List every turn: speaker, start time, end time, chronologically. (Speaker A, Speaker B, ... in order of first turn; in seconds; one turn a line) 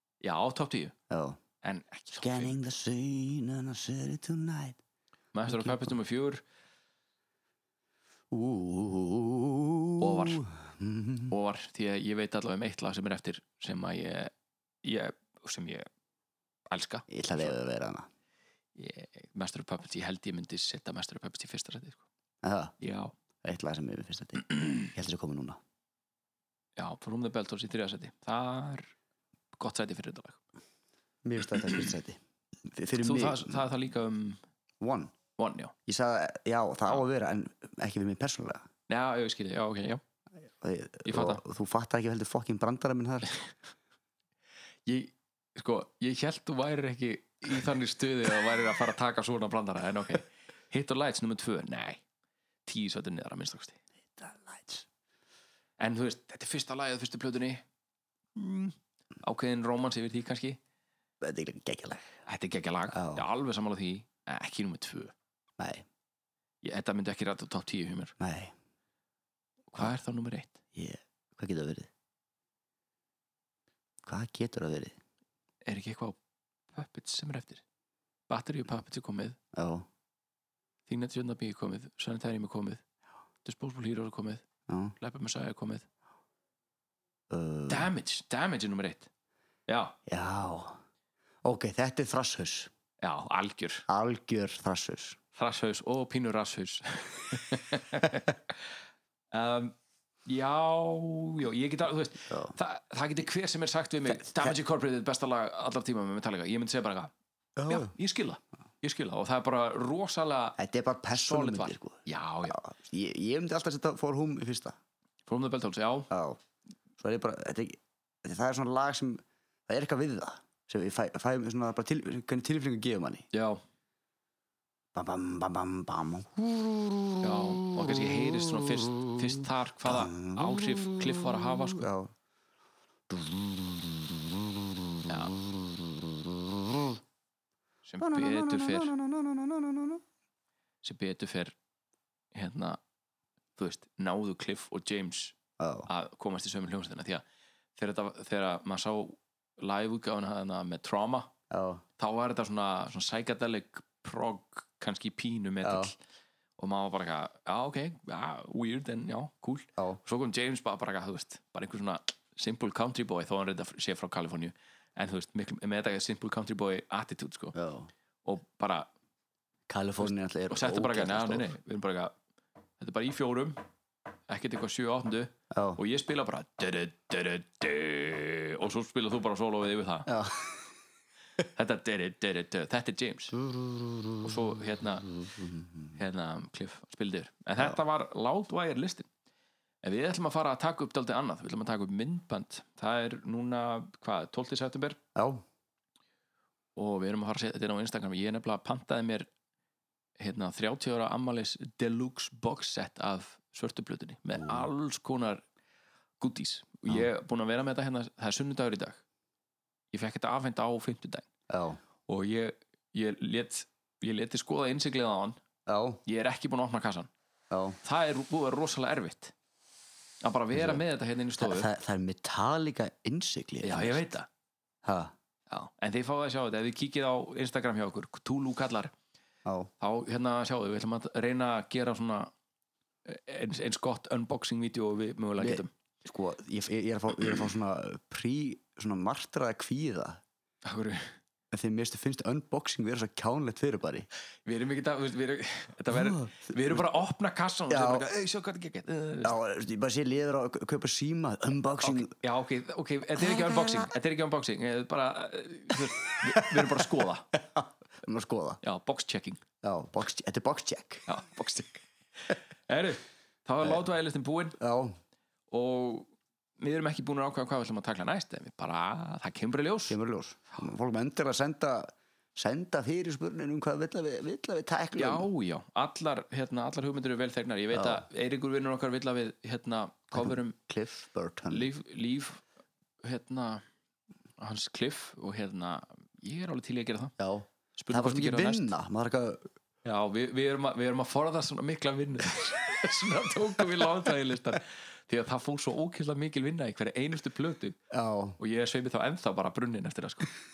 Speaker A: 0.2-0.9
Speaker B: 1.1-1.4
Speaker A: 1.6-2.5
Speaker B: 2.2-4.8
Speaker A: 5.3-6.4
Speaker B: 5.5-6.0
Speaker B: 8.3-11.3
Speaker A: 10.0-10.4
Speaker A: 11.3-14.3
Speaker A: 14.8-15.9
Speaker A: 16.7-17.6
Speaker B: 17.1-18.1
Speaker A: 18.8-22.0
Speaker B: 22.4-22.7
Speaker A: 22.8-23.1
Speaker B: 23.4-25.6
Speaker A: 26.8-28.9
Speaker A: 29.5-30.4
Speaker B: 31.2-33.6
Speaker A: 33.0-34.4
Speaker B: 34.8-35.1
Speaker A: 35.4-35.7
Speaker B: 35.9-38.6
Speaker A: 38.9-40.0
Speaker B: 40.6-43.4
Speaker A: 41.0-41.4
Speaker A: 44.9-52.0
Speaker A: 52.6-53.8
Speaker B: 54.1-54.9
Speaker A: 55.8-57.6
Speaker A: 58.4-60.6
Speaker B: 61.2-62.2
Speaker A: 62.3-65.1
Speaker B: 62.9-63.3
Speaker B: 65.6-65.8
Speaker A: 66.6-68.1
Speaker B: 68.2-68.5
Speaker A: 69.7-70.6
Speaker B: 70.7-71.9
Speaker B: 74.0-75.0
Speaker A: 75.6-76.2
Speaker A: 76.7-77.6
Speaker A: 78.3-79.4
Speaker B: 79.5-79.9
Speaker A: 80.9-82.8
Speaker A: 83.4-84.4
Speaker B: 84.7-84.9
Speaker A: 85.0-85.8
Speaker B: 87.3-87.9
Speaker A: 87.7-89.1
Speaker A: 89.7-90.0
Speaker B: 90.1-90.8
Speaker B: 91.4-92.7
Speaker A: 93.0-93.8
Speaker B: 93.9-95.2
Speaker A: 95.3-98.7
Speaker A: 99.3-99.7
Speaker A: 100.2-107.1
Speaker B: 102.3-102.6
Speaker B: 104.1-104.5
Speaker B: 107.6-107.9
Speaker A: 107.7-110.6
Speaker B: 110.6-114.8
Speaker A: 111.1-112.6
Speaker A: 115.3-116.1
Speaker B: 116.1-116.4
Speaker B: 117.0-123.3
Speaker A: 123.3-123.6
Speaker B: 124.9-128.9
Speaker A: 127.2-131.8
Speaker B: 129.8-132.1
Speaker B: 133.1-137.0
Speaker A: 135.1-135.3
Speaker A: 137.9-138.9
Speaker B: 138.0-140.0
Speaker A: 140.8-141.5
Speaker A: 142.3-142.8
Speaker A: 143.6-147.2
Speaker B: 145.6-145.9
Speaker A: 147.8-151.3
Speaker B: 151.5-151.8
Speaker A: 152.0-155.9
Speaker B: 155.6-155.9
Speaker A: 156.6-167.5
Speaker B: 167.5-167.9
Speaker A: 168.2-168.9
Speaker B: 169.7-171.5
Speaker A: 170.0-172.1
Speaker A: 172.8-173.6
Speaker A: 174.3-180.1
Speaker B: 175.5-175.8
Speaker B: 180.1-180.7
Speaker A: 181.4-183.4
Speaker B: 183.4-184.3
Speaker A: 184.2-185.1
Speaker B: 185.2-185.9
Speaker A: 185.9-189.1
Speaker A: 189.8-195.0
Speaker B: 195.1-195.4
Speaker A: 196.8-199.3
Speaker A: 200.2-205.4
Speaker B: 204.3-204.7
Speaker A: 206.2-209.0
Speaker A: 209.9-211.2
Speaker B: 211.5-211.8
Speaker A: 212.1-215.4
Speaker B: 215.7-216.0
Speaker A: 216.1-217.1
Speaker B: 217.5-217.8
Speaker A: 217.8-219.3
Speaker A: 220.2-221.7
Speaker B: 220.5-220.8
Speaker B: 221.4-224.1
Speaker A: 223.6-224.3
Speaker B: 224.8-225.1
Speaker A: 225.5-228.9
Speaker B: 229.4-229.7
Speaker A: 229.8-232.3
Speaker A: 233.1-235.7
Speaker B: 235.4-240.2
Speaker A: 240.6-241.1
Speaker B: 241.5-244.1
Speaker A: 244.4-249.4
Speaker B: 245.9-246.9
Speaker B: 247.7-248.1
Speaker B: 249.2-252.2
Speaker A: 251.8-257.3
Speaker B: 253.2-253.9
Speaker B: 256.2-258.6
Speaker A: 258.6-259.4
Speaker B: 259.6-261.1
Speaker A: 261.1-264.6
Speaker B: 264.6-265.0
Speaker A: 265.5-270.0
Speaker B: 269.9-275.3
Speaker A: 274.9-280.6
Speaker B: 277.7-278.1
Speaker B: 280.1-281.7
Speaker A: 281.5-282.4
Speaker A: 283.0-283.6
Speaker A: 284.4-287.1
Speaker B: 287.2-289.5
Speaker A: 287.8-288.7
Speaker A: 289.8-297.8
Speaker B: 297.9-298.4
Speaker A: 298.4-300.3